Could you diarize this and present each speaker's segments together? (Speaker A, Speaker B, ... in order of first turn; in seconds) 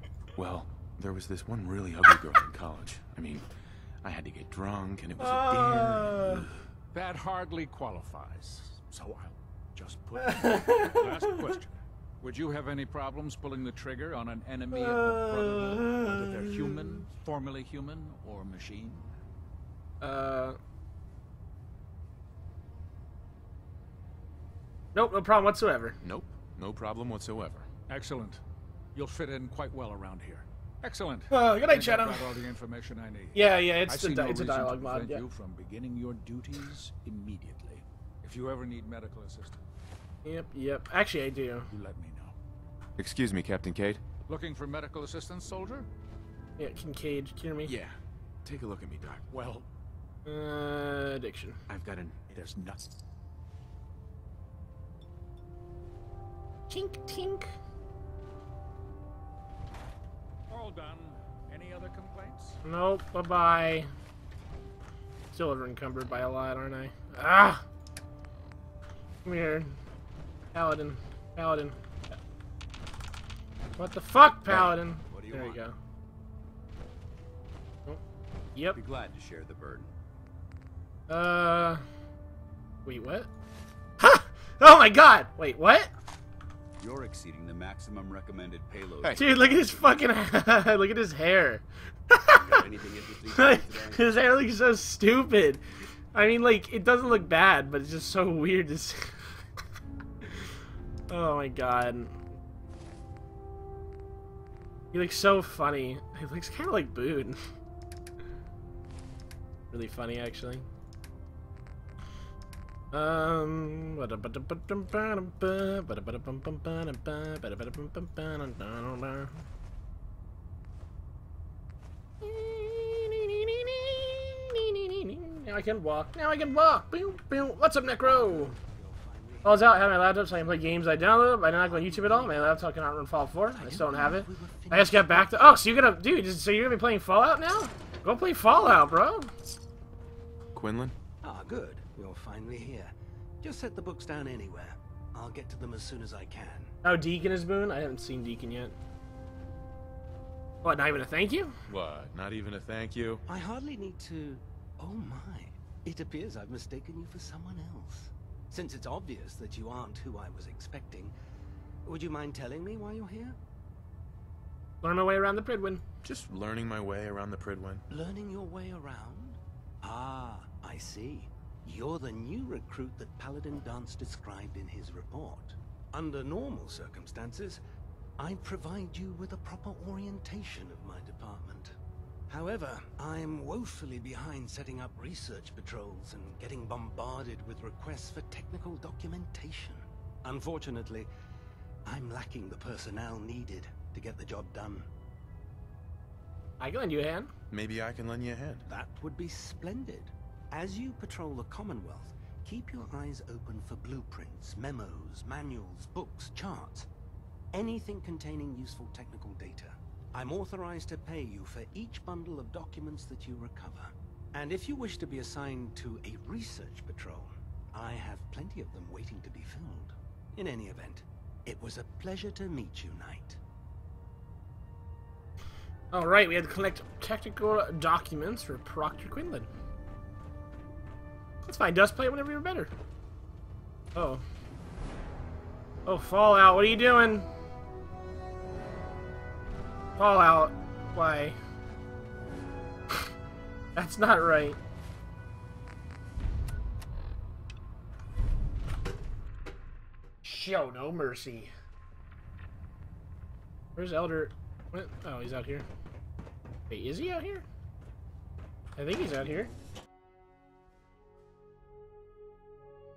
Speaker A: 0.3-6.5, 26.0-27.6, 43.0-44.0, 47.6-49.3, 51.7-52.4, 140.5-140.9, 151.7-153.2, 166.0-167.8, 197.5-198.7
Speaker B: 5.2-6.4, 10.2-11.3, 14.7-17.0, 20.0-20.6, 24.9-26.0, 31.3-32.4, 33.3-35.2, 40.2-41.7, 46.6-47.7, 50.3-51.6, 56.7-57.5, 62.6-63.9, 65.3-67.6, 69.2-69.7, 70.5-71.8, 73.8-75.7, 81.1-81.8, 82.8-83.3, 84.0-85.9, 89.1-92.6, 93.3-95.6, 96.1-99.1, 101.1-102.1, 104.9-107.4, 109.7-110.7, 112.9-119.4, 122.2-128.6, 129.4-139.3, 146.8-148.7, 150.6-151.5, 164.8-165.8, 196.6-197.3, 225.9-229.5, 231.4-232.7, 233.9-234.2, 235.9-237.3, 240.0-241.4, 243.7-244.6, 250.2-251.5, 253.8-255.7, 256.7-257.4, 258.8-259.5
Speaker C: 6.9-19.1, 27.9-28.4, 28.9-39.6, 41.7-42.3, 44.3-45.9, 49.3-49.7, 52.3-52.8, 60.5-62.6
Speaker D: 75.1-75.6, 78.7-79.9, 86.8-89.9, 92.3-94.1
Speaker E: 128.0-132.7, 133.5-135.6, 141.2-146.7, 153.3-161.1, 161.8-163.4, 167.9-177.6, 178.2-181.7, 182.3-191.1, 191.8-194.9, 198.7-206.9, 207.5-223.4